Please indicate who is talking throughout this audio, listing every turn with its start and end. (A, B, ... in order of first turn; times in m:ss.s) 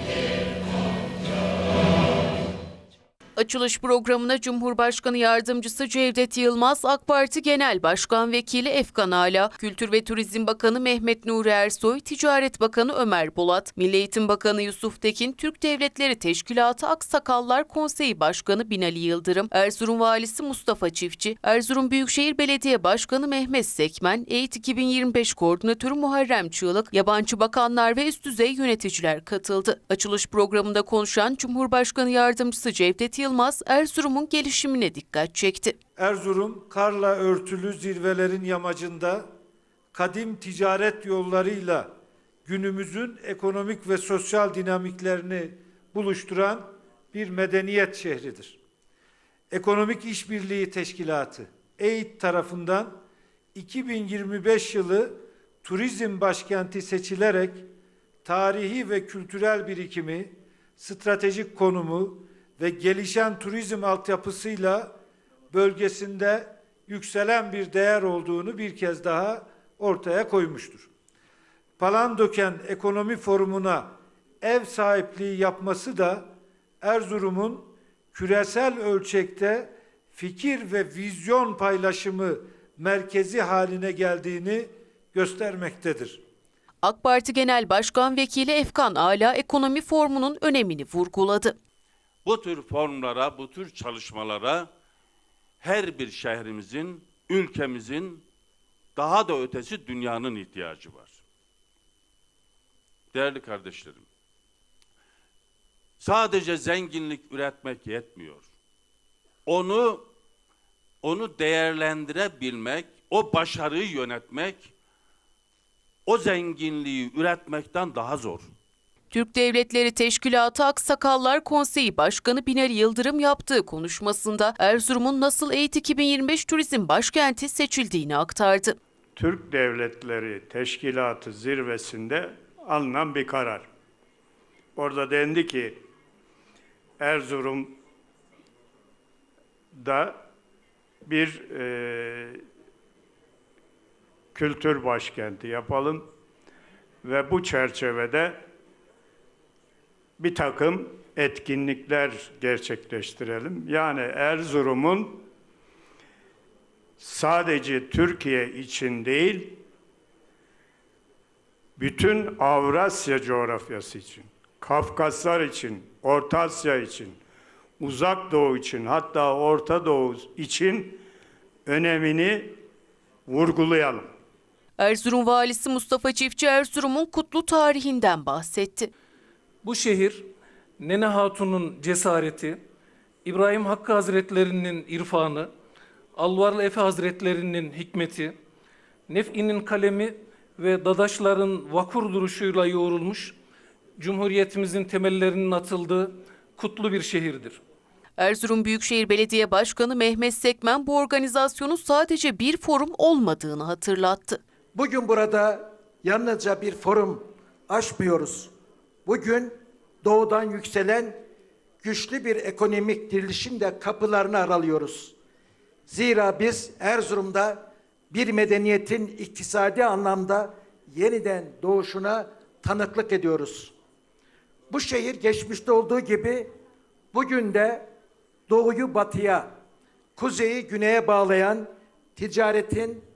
0:03.4-0:35.8 A
0:36.0-0:39.2 B
0:39.9-0:41.9 B
0:42.4-0:48.6 B
0:49.5-0:53.0 B
0:53.6-0:57.7 B
0:58.2-1:04.9 B
1:05.5-1:10.9 B
1:11.8-1:13.9 B
1:14.4-1:26.2 B
1:26.8-1:31.6 A
1:32.2-1:34.7 C
1:35.6-1:38.2 C
1:39.0-1:41.2 C
1:43.1-1:44.1 C
1:46.0-1:48.5 C
1:49.4-1:50.1 C
1:51.0-1:54.7 C
1:56.1-1:58.5 C
1:59.1-2:08.8 A
2:09.2-2:13.7 D
2:14.8-2:15.8 D
2:17.0-2:17.8 D
2:19.8-2:20.2 D
2:21.1-2:22.4 D
2:24.3-2:26.1 D
2:27.0-2:28.4 D
2:30.2-2:35.2 D
2:37.0-2:39.6 D
2:41.8-2:47.2 D
2:47.8-2:51.0 D
2:51.7-2:52.6 D
2:53.3-2:54.1 D
2:54.8-2:58.9 A
2:59.6-3:00.3 E
3:00.8-3:02.6 E
3:03.2-3:05.5 E
3:06.2-3:08.3 E
3:09.1-3:13.3 E
3:14.0-3:17.6 E
3:18.2-3:24.4 A
3:24.7-3:28.5 F
3:29.1-3:31.2 F
3:31.8-3:35.2 F
3:35.9-3:43.7 F
3:44.7-3:46.5 F
3:47.1-3:47.9 F
3:48.5-3:49.5 F
3:50.2-3:53.0 F